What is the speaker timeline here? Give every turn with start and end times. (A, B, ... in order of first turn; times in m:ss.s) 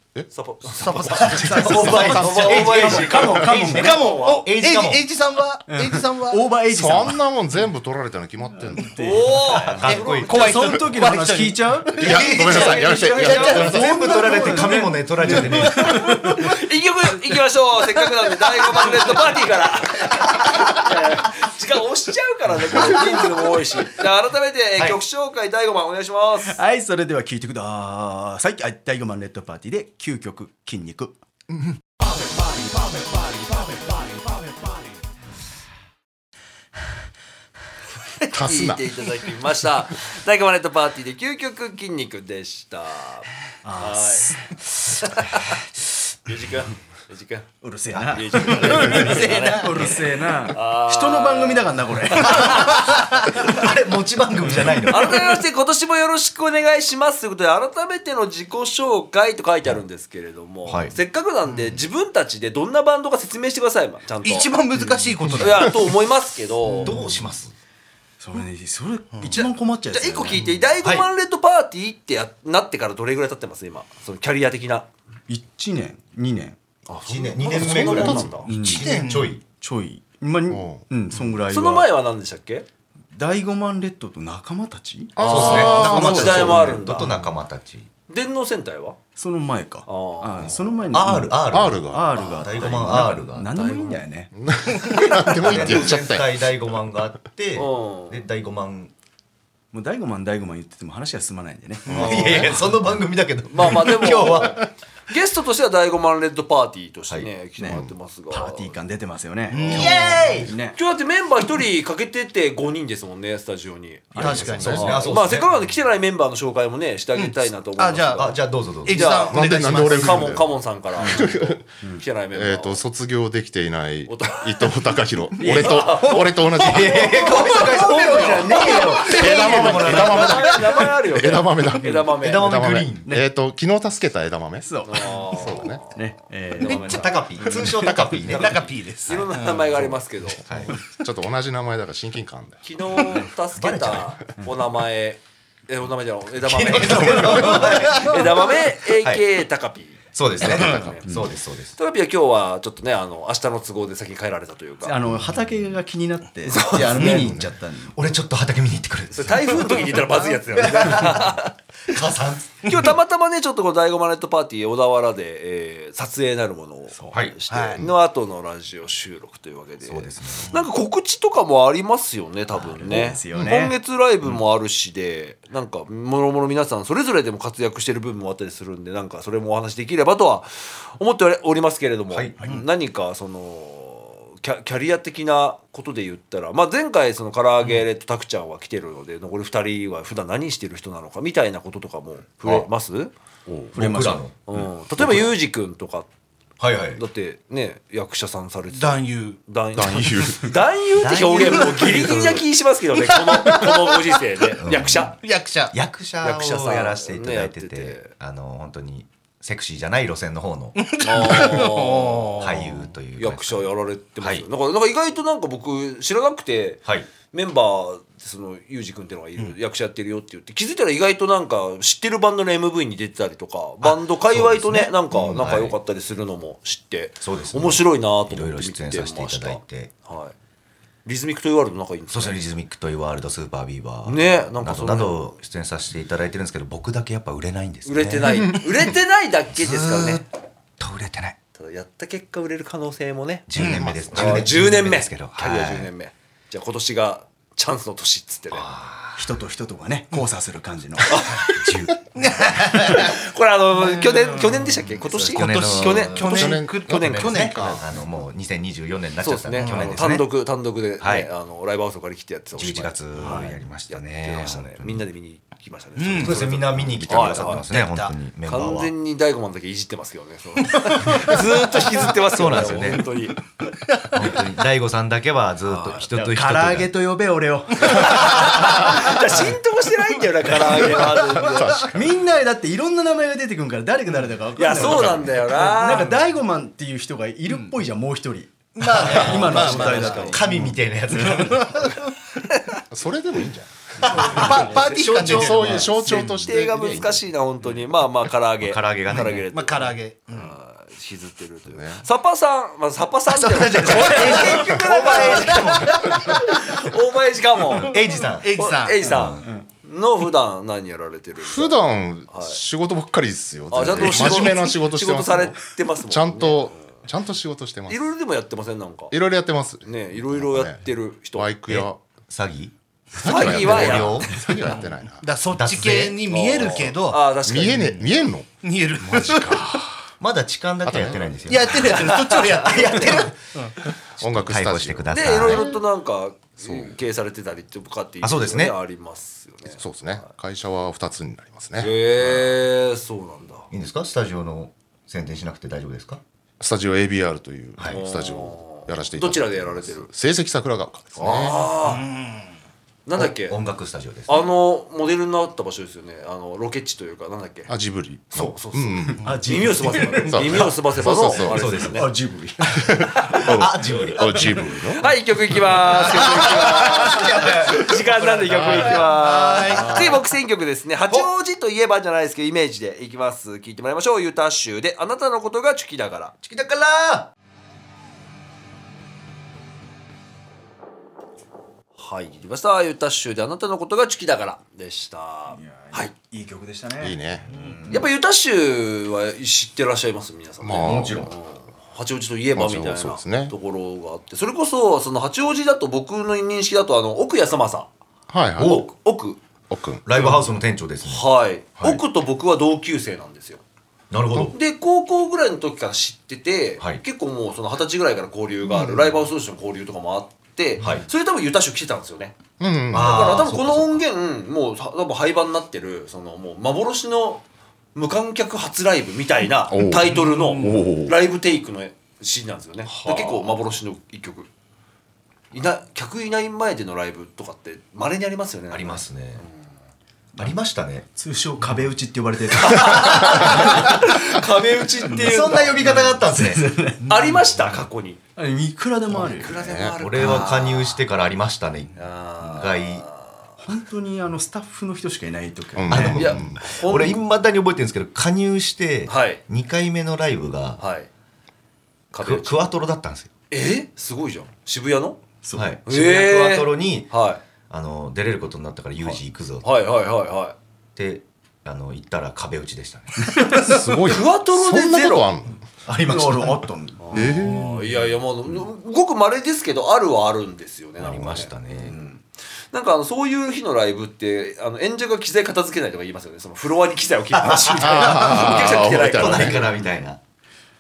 0:00.3-0:04.4 A
0:00.7-0:06.5 B
0:00.8-0:03.6 C
0:01.4-0:05.0 D
0:03.5-0:03.8 E
0:05.7-0:07.2 E
0:06.7-0:09.0 C
0:08.6-0:12.2 E
0:08.9-0:10.7 A
0:09.4-0:10.7 D
0:09.8-0:16.4 B
0:12.0-0:16.0 D
0:12.0-0:13.9 C
0:12.4-0:13.7 A
0:13.6-0:16.4 E
0:15.9-0:26.6 A
0:26.5-0:31.2 E
0:32.2-0:34.5 B
0:38.3-0:38.9 C
0:38.3-0:50.0 A
0:43.6-0:44.4 E
0:47.6-0:52.9 E
0:48.6-0:49.8 B
0:50.5-0:53.6 A
0:52.3-0:55.4 D
0:54.8-1:07.0 A
1:00.6-1:01.0 D
1:04.2-1:05.8 B
1:06.6-1:07.2 E
1:06.8-1:07.5 D
1:08.2-1:10.6 E
1:09.2-1:14.9 A
1:10.8-1:11.1 D
1:15.3-1:16.6 E
1:16.9-1:18.5 A
1:17.0-1:19.4 D
1:17.5-1:18.4 C
1:18.4-1:19.0 E
1:18.6-1:19.3 B
1:19.6-1:21.9 E
1:20.5-1:20.8 C
1:21.5-1:22.6 A
1:23.1-1:26.6 E
1:25.2-1:26.6 C
1:25.2-1:27.2 A
1:25.2-1:27.9 D
1:25.9-1:26.2 B
1:28.1-1:29.0 A
1:29.2-1:34.3 E
1:29.9-1:30.6 A
1:30.9-1:33.5 D
1:31.5-1:32.1 C
1:33.5-1:34.0 A
1:34.3-1:36.4 C
1:35.2-1:38.9 D
1:35.5-1:35.9 A
1:37.5-1:38.2 A
1:39.7-1:42.6 E
1:41.9-1:42.4 C
1:41.9-1:44.6 D
1:41.9-1:42.6 A
1:43.5-1:48.8 A
1:47.6-1:50.8 E
1:49.5-1:50.4 B
1:49.6-1:50.5 D
1:50.7-2:02.8 A
1:54.1-1:54.8 E
1:54.2-1:55.5 D
1:54.2-1:55.1 B
1:57.2-1:58.3 B
1:58.1-1:59.2 D
1:58.8-2:00.4 B
1:59.3-2:01.6 C
2:02.3-2:07.3 C
2:04.1-2:04.9 A
2:05.4-2:06.4 E
2:05.4-2:12.5 A
2:06.5-2:10.5 D
2:06.9-2:10.4 E
2:09.0-2:15.8 C
2:12.2-2:13.1 D
2:14.6-2:17.7 E
2:14.8-2:16.0 A
2:16.6-2:17.2 A
2:16.6-2:19.2 D
2:17.5-2:19.6 B
2:19.0-2:20.4 A
2:19.8-2:20.8 D
2:21.0-2:22.6 C
2:22.6-2:31.2 A
2:23.6-2:24.2 D
2:26.4-2:29.2 D
2:27.7-2:28.2 B
2:30.1-2:31.8 D
2:31.8-2:34.9 A
2:34.8-2:37.9 E
2:36.5-2:37.1 A
2:36.8-2:40.0 D
2:37.0-2:37.4 C
2:39.1-2:41.5 A
2:40.5-2:41.4 D
2:41.9-2:42.9 D
2:42.6-3:13.1 A
2:47.0-2:47.2 E
2:47.1-2:47.9 D
2:47.5-2:47.8 B
2:49.8-2:50.6 D
2:52.6-2:52.9 D
2:52.8-2:53.8 E
3:02.1-3:02.5 D
3:13.7-3:14.2 E
3:13.7-3:15.3 D
3:14.5-3:16.1 A
3:16.6-3:17.0 D
3:16.9-3:25.1 A
3:18.7-3:19.4 B
3:19.7-3:20.5 C
3:21.0-3:22.4 D
3:23.1-3:23.9 B
3:24.6-3:25.2 D
3:25.2-3:25.7 B
3:25.7-3:31.7 D
3:26.2-3:28.1 A
3:30.8-3:32.6 B
3:31.0-3:32.5 A
3:32.4-3:34.4 D
3:33.1-3:50.3 A
3:43.8-3:45.8 D
3:47.2-3:49.9 D
3:51.0-3:52.4 A
3:52.1-3:58.5 D
3:54.0-3:55.3 A
3:57.8-4:00.2 A
3:59.6-4:00.2 D
4:00.8-4:01.4 D
4:01.6-4:03.5 A
4:03.5-4:05.9 D
4:03.6-4:04.0 B
4:04.0-4:08.7 A
4:08.5-4:09.3 D
4:09.2-4:11.3 E
4:11.0-4:11.8 A
4:11.6-4:12.0 D
4:12.1-4:13.2 B
4:12.7-4:17.8 A
4:13.8-4:14.6 B
4:15.1-4:20.3 D
4:15.3-4:17.8 B
4:16.2-4:17.8 C
4:19.2-4:27.6 A
4:21.0-4:21.3 D
4:22.5-4:25.0 D
4:26.0-4:26.4 B
4:26.1-4:28.9 D
4:27.0-4:27.5 C
4:27.6-4:28.1 B
4:28.4-4:33.4 A
4:30.8-4:31.4 B
4:32.2-4:33.1 D
4:34.1-4:36.9 D
4:35.6-4:36.1 A
4:36.1-4:39.3 E
4:37.8-4:42.0 A
4:41.2-4:41.7 B
4:41.4-4:42.0 C
4:41.9-4:50.7 E
4:44.6-4:46.2 A
4:48.8-4:50.2 B
4:49.0-4:50.5 A
4:49.0-4:51.9 D
4:51.2-4:52.1 B
4:52.9-4:57.2 C
4:54.0-4:56.3 B
4:54.1-4:55.8 D
4:54.4-4:54.8 A
4:55.8-5:12.6 A
4:58.6-4:59.4 D
4:59.5-5:00.5 B
5:01.7-5:02.0 C
5:03.3-5:06.2 D
5:03.5-5:06.8 B
5:07.7-5:09.4 D
5:08.2-5:09.0 B
5:11.4-5:18.0 C
5:13.7-5:16.9 A
5:13.9-5:14.5 D
5:17.9-5:19.1 A
5:19.1-5:20.8 C
5:19.8-5:21.5 A
5:21.3-5:22.0 C
5:21.7-5:24.5 D
5:23.2-5:24.5 A
5:23.2-5:25.3 C
5:25.2-5:27.3 B
5:25.5-5:26.2 D
5:26.2-5:28.3 A
5:27.4-5:28.5 C
5:28.6-5:29.9 B
5:29.0-5:29.8 C
5:30.2-5:33.4 D
5:30.8-5:31.5 C
5:31.5-5:33.8 B
5:31.8-5:33.3 A
5:34.2-5:35.7 D
5:34.2-5:35.8 C
5:35.1-5:40.2 A
5:36.6-5:36.9 C
5:38.2-5:38.7 D
5:39.8-5:41.9 C
5:41.8-5:43.7 A
5:43.7-5:46.2 D
5:46.6-5:51.7 C
5:47.8-5:48.0 D
5:47.9-5:50.1 A
5:51.2-5:52.0 A
5:51.9-5:52.4 B
5:53.0-5:53.6 A
5:53.2-5:54.4 D
5:54.3-5:57.7 A
5:57.7-5:59.4 C
5:58.3-6:02.1 A
5:59.2-6:02.1 D
5:59.2-5:59.8 E
6:00.2-6:01.8 C
6:01.9-6:02.7 E
6:02.7-6:05.1 C
6:03.2-6:03.6 A
6:03.3-6:04.7 D
6:04.4-6:16.3 A
6:06.0-6:09.1 D
6:08.5-6:08.9 C
6:09.0-6:10.1 B
6:09.7-6:10.2 D
6:16.4-6:17.3 D
6:22.0-6:26.1 A
6:25.5-6:28.0 E
6:27.0-6:27.4 C
6:27.5-6:28.0 D
6:27.9-6:37.9 A
6:30.6-6:31.3 C
6:30.8-6:31.3 D
6:32.6-6:33.5 C
6:38.3-6:38.8 C
6:38.6-6:38.9 D
6:38.6-6:39.4 A
6:39.7-6:40.0 C
6:40.0-6:41.2 D
6:40.1-6:40.5 A
6:41.0-6:43.6 A
6:44.1-6:44.6 D
6:44.5-6:52.4 A
6:48.7-6:49.2 C
6:50.8-6:51.1 D
6:52.6-6:53.5 C
6:52.9-6:54.0 D
6:52.9-6:57.4 A
6:57.9-7:04.5 A
6:59.7-7:01.1 C
7:03.0-7:03.3 C
7:05.5-7:09.5 A
7:08.7-7:09.4 D
7:10.4-7:11.0 D
7:11.1-7:13.9 E
7:12.6-7:15.8 A
7:13.0-7:13.8 D
7:15.1-7:16.7 D
7:15.8-7:17.2 E
7:17.1-7:18.2 A
7:18.4-7:19.5 E
7:19.1-7:21.0 A
7:19.4-7:20.0 C
7:20.0-7:23.0 D
7:20.2-7:20.5 E
7:22.0-7:23.4 A
7:23.6-7:26.3 E
7:25.8-7:26.6 C
7:25.9-7:30.8 D
7:26.0-7:27.2 A
7:29.1-7:29.4 A
7:30.8-7:31.1 A
7:32.1-7:32.6 A
7:32.2-7:33.3 D
7:33.5-7:35.2 A
7:35.4-7:35.7 E
7:35.5-7:37.1 D
7:35.8-7:37.4 A
7:37.7-7:39.6 D
7:39.0-7:40.6 A
7:41.0-7:43.6 D
7:43.3-7:43.6 E
7:43.5-7:45.6 C
7:44.0-7:45.3 A
7:45.8-7:46.7 D
7:45.9-7:47.8 E
7:47.0-7:52.2 A
7:47.1-7:47.7 C
7:51.0-7:52.0 D
7:52.7-7:59.7 A
7:57.3-8:00.2 D
7:57.6-7:59.6 C